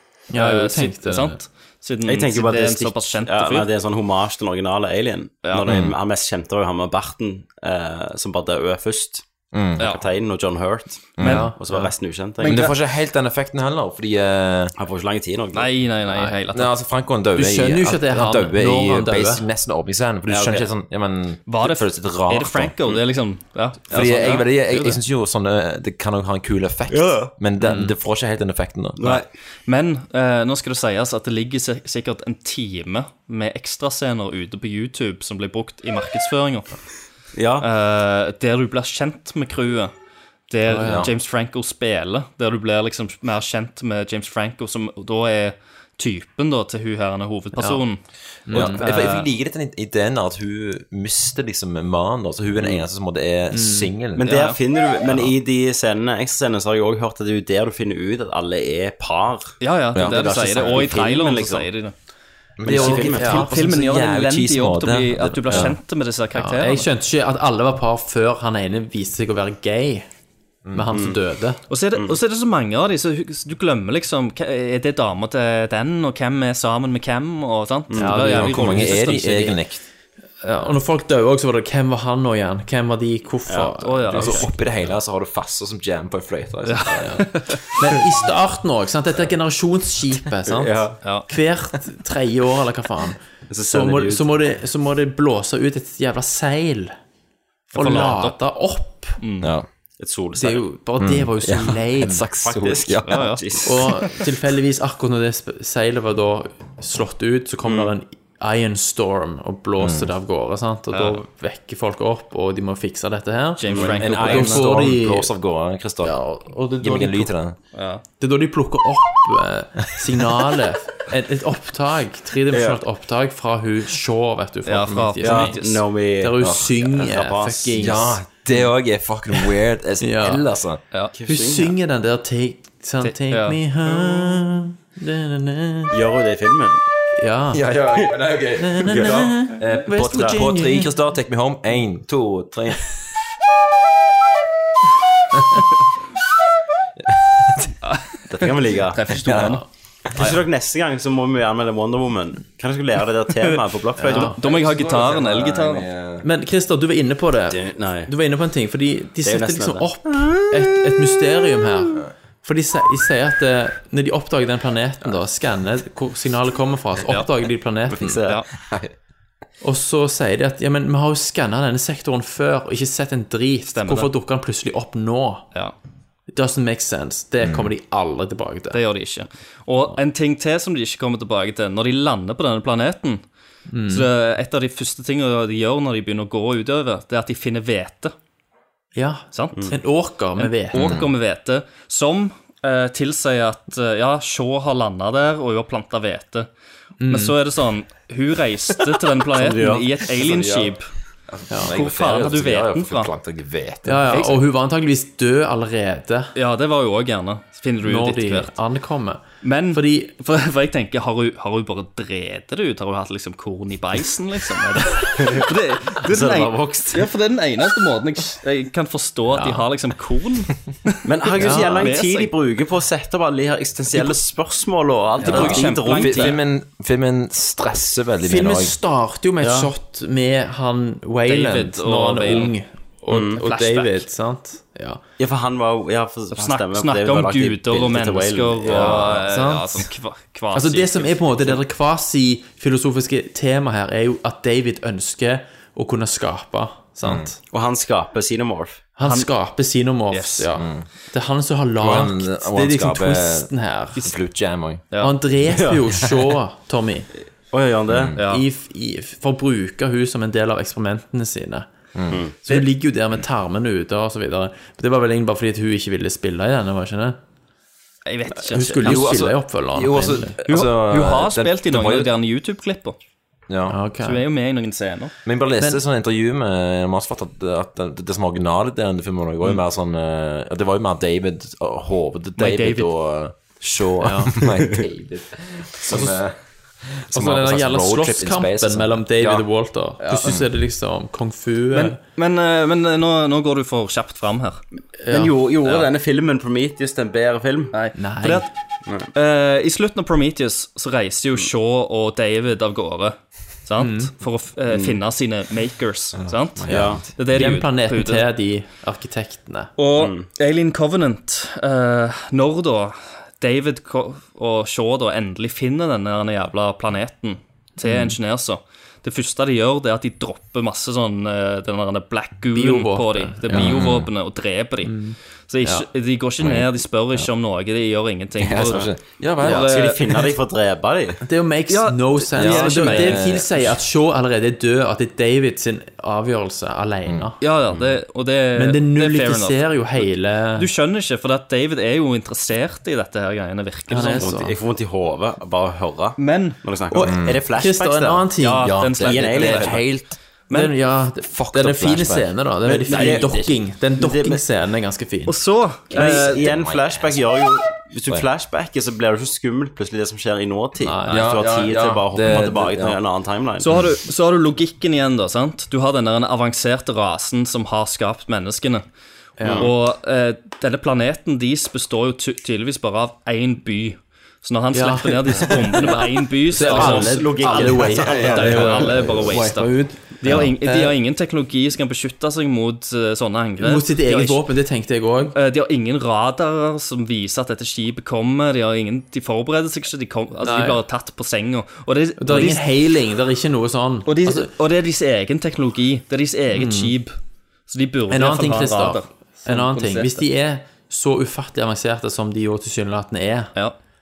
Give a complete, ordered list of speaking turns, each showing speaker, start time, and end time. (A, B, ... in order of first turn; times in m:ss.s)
0:00.3-0:01.4 A
0:00.3-0:03.7 B
0:02.0-0:09.2 C
0:05.6-0:05.9 D
0:09.5-0:09.9 D
0:09.8-0:12.6 C
0:11.2-0:11.5 B
0:11.2-0:11.5 D
0:11.2-0:11.9 A
0:12.4-0:12.7 B
0:12.4-0:14.7 D
0:14.8-0:15.7 C
0:15.5-0:16.7 B
0:16.1-0:16.4 A
0:16.5-0:22.8 D
0:17.3-0:19.4 A
0:20.3-0:20.7 C
0:21.5-0:25.0 B
0:23.9-0:24.4 C
0:23.9-0:29.2 D
0:26.9-0:27.3 C
0:27.6-0:27.9 A
0:29.0-0:29.2 C
0:29.0-0:36.7 B
0:37.3-0:37.6 C
0:37.6-0:39.9 B
0:40.5-0:48.0 B
0:40.7-0:41.1 A
0:40.8-0:41.1 D
0:47.5-0:47.8 A
0:48.5-0:48.8 A
0:48.5-0:54.3 D
0:48.5-0:49.3 B
0:53.5-0:53.9 A
0:54.2-1:01.6 C
0:54.2-0:54.6 B
0:55.1-0:55.3 D
0:59.6-1:01.9 B
0:59.9-1:00.7 D
1:02.6-1:05.7 D
1:02.6-1:03.4 C
1:02.7-1:03.6 A
1:03.2-1:06.9 B
1:06.3-1:10.1 A
1:10.7-1:11.6 A
1:10.9-1:11.2 C
1:11.7-1:19.2 B
1:17.9-1:18.2 C
1:18.0-1:19.6 A
1:18.1-1:19.8 D
1:20.4-1:24.3 A
1:23.5-1:24.3 C
1:23.8-1:24.5 B
1:24.2-1:27.3 D
1:26.7-1:27.8 B
1:26.9-1:27.2 A
1:27.8-1:36.9 A
1:31.0-1:31.3 B
1:33.5-1:34.3 C
1:37.7-1:39.2 A
1:37.7-1:38.4 B
1:39.2-1:39.5 B
1:39.4-1:39.7 D
1:40.0-1:40.6 C
1:40.4-1:42.3 A
1:41.0-1:43.2 D
1:42.4-1:44.0 C
1:43.1-1:43.6 B
1:43.6-1:55.3 A
1:47.6-1:47.9 C
1:49.8-1:50.1 D
1:50.9-1:51.2 B
1:53.6-1:54.7 B
1:53.7-1:54.0 C
1:53.8-1:56.2 D
1:56.0-1:57.3 A
1:56.8-1:57.6 D
1:57.7-1:58.0 B
1:58.2-2:05.6 A
2:02.5-2:02.8 C
2:04.6-2:05.8 B
2:05.2-2:07.8 C
2:06.2-2:08.3 A
2:06.4-2:06.7 D
2:07.8-2:10.8 D
2:10.0-2:10.4 A
2:11.1-2:11.7 C
2:11.3-2:15.9 A
2:13.0-2:13.6 B
2:14.0-2:14.2 C
2:15.9-2:16.8 C
2:17.2-2:17.6 A
2:17.5-2:22.9 D
2:18.6-2:20.9 A
2:27.0-2:27.7 D
2:27.9-2:28.2 B
2:28.3-2:29.0 C
2:28.9-2:29.6 B
2:29.2-2:30.2 D
2:30.1-2:34.4 C
2:34.0-2:34.4 A
2:34.1-2:35.8 B
2:34.4-2:36.3 D
2:36.2-2:48.2 A
2:37.5-2:38.1 C
2:39.2-2:40.8 C
2:47.9-2:48.4 C
2:49.6-2:55.4 A
2:53.7-2:54.1 B
2:56.3-2:58.8 A
2:57.4-2:57.7 D
2:58.7-3:03.2 B
3:03.7-3:04.1 A
3:03.9-3:08.1 B
3:08.9-3:11.0 A
3:09.3-3:09.7 B
3:10.4-3:16.5 B
3:10.7-3:11.1 D
3:17.0-3:17.4 A
3:17.1-3:20.8 B
3:19.3-3:19.8 C
3:20.2-3:20.8 D
3:21.3-3:24.2 D
3:21.5-3:21.8 A
3:21.7-3:23.1 B
3:23.8-3:26.3 A
3:26.4-3:28.5 B
3:27.8-3:30.1 A
3:29.4-3:42.3 B
3:35.2-3:35.4 C
3:36.0-3:37.0 C
3:39.3-3:39.7 A
3:41.0-3:46.4 C
3:41.4-3:41.9 A
3:45.2-3:46.4 B
3:45.3-3:45.6 A
3:45.3-3:48.7 D
3:48.2-3:55.0 A
3:51.3-3:52.5 B
3:53.1-3:53.4 C
3:53.4-3:54.0 B
3:55.2-3:59.2 C
3:56.3-4:01.5 B
3:58.8-3:59.9 A
4:00.5-4:07.4 A
4:07.0-4:07.3 D
4:07.5-4:08.8 C
4:09.0-4:14.0 A
4:09.0-4:09.3 B
4:10.1-4:10.4 B
4:10.6-4:10.9 D
4:11.8-4:14.9 D
4:15.0-4:17.1 A
4:17.5-4:18.1 C
4:17.9-4:18.2 D
4:18.2-4:18.4 B
4:18.2-4:21.7 A
4:22.4-4:27.2 A
4:28.0-4:29.1 B
4:28.5-4:30.4 A
4:28.8-4:32.1 D
4:30.5-4:33.0 B
4:33.5-4:33.8 D
4:33.7-4:34.2 A
4:34.0-4:35.1 B
4:35.2-4:49.4 D
4:42.4-4:42.9 B
4:44.0-4:44.4 A
4:45.9-4:46.2 A
4:47.1-4:52.0 A
4:50.0-4:50.4 B
4:51.7-4:54.6 B
4:55.0-4:55.3 A
4:55.1-4:57.7 C
4:57.7-4:58.5 B
4:58.0-4:58.5 A
4:59.1-5:08.2 B
5:03.8-5:04.1 A
5:04.7-5:05.0 C
5:06.1-5:07.0 D
5:06.7-5:07.0 C
5:06.7-5:09.7 A
5:09.8-5:25.0 B
5:10.0-5:10.2 C
5:17.8-5:18.1 A
5:22.5-5:23.7 A
5:23.5-5:24.1 D
5:24.8-5:25.9 A
5:25.5-5:28.9 B
5:26.4-5:26.7 D
5:28.4-5:29.7 D
5:29.4-5:30.1 B
5:29.5-5:31.2 C
5:31.2-5:37.4 A
5:31.7-5:33.4 B
5:32.3-5:33.7 D
5:37.1-5:37.9 D
5:37.4-5:44.3 B
5:38.5-5:40.7 A
5:43.9-5:44.6 A
5:44.0-5:48.3 C
5:46.2-5:46.6 B
5:46.9-5:48.7 A
5:47.0-5:47.4 D
5:48.4-5:49.8 B
5:48.6-5:50.2 D
5:49.0-5:49.8 C
5:50.5-5:50.7 B
5:50.5-5:55.4 A
5:51.3-5:52.3 D
5:52.6-5:54.4 C
5:52.9-5:53.2 B
5:55.3-5:56.4 B
5:55.9-6:03.7 C
5:55.9-5:56.2 A
5:56.0-5:57.2 D
6:00.8-6:01.2 A
6:01.1-6:03.0 D
6:03.6-6:08.8 B
6:09.4-6:09.7 A
6:09.4-6:09.7 C
6:09.6-6:24.4 B
6:14.7-6:16.0 A
6:16.5-6:21.0 A
6:16.6-6:18.9 C
6:23.6-6:25.4 A
6:25.3-6:32.6 B
6:30.4-6:30.8 A
6:32.2-6:34.5 A
6:34.0-6:37.1 B
6:36.5-6:36.9 A
6:37.7-6:40.2 B
6:38.1-6:43.5 A